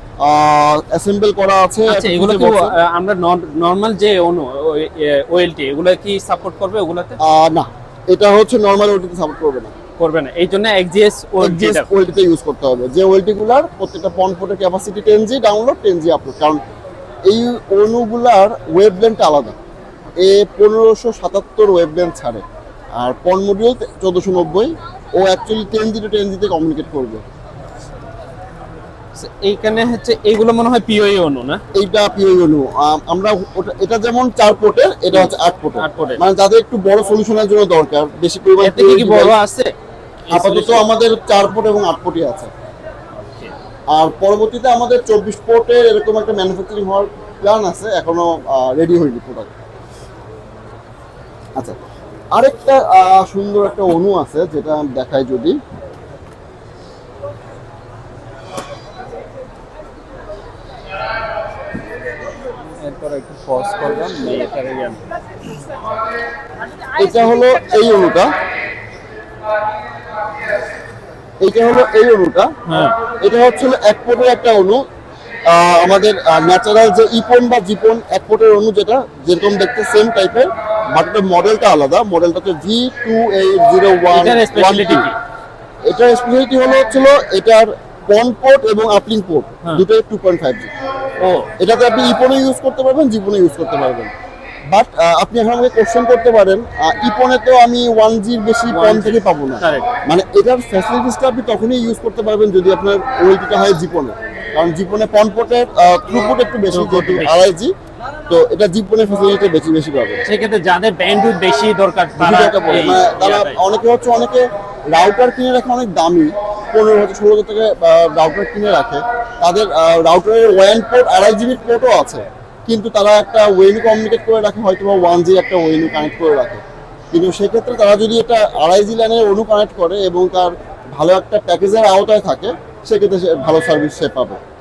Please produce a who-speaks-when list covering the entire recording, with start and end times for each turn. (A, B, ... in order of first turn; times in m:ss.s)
0:00.2-0:02.7 A
0:01.9-0:07.2 B
0:07.2-0:09.7 A
0:10.0-0:11.9 B
0:11.4-0:16.6 A
0:17.2-0:19.6 A
0:20.2-0:22.4 A
0:23.0-0:27.2 A
0:29.2-0:31.6 B
0:31.7-0:39.3 A
0:35.1-0:36.2 B
0:38.6-0:39.7 B
0:40.3-0:40.8 B
0:40.3-0:42.5 A
0:43.1-0:43.5 B
0:43.9-0:49.5 A
0:52.3-0:55.6 A
1:02.8-1:05.0 B
1:06.9-1:08.3 A
1:11.4-1:12.5 A
1:12.7-1:13.0 B
1:13.2-1:14.8 A
1:15.5-1:25.1 A
1:24.1-1:25.2 B
1:25.8-1:30.7 A
1:31.2-1:31.5 B
1:31.6-1:34.1 A
1:34.7-1:47.7 A
1:38.7-1:39.9 B
1:46.7-1:47.4 B
1:48.3-1:50.2 A
1:50.2-1:53.6 B
1:52.2-2:14.4 A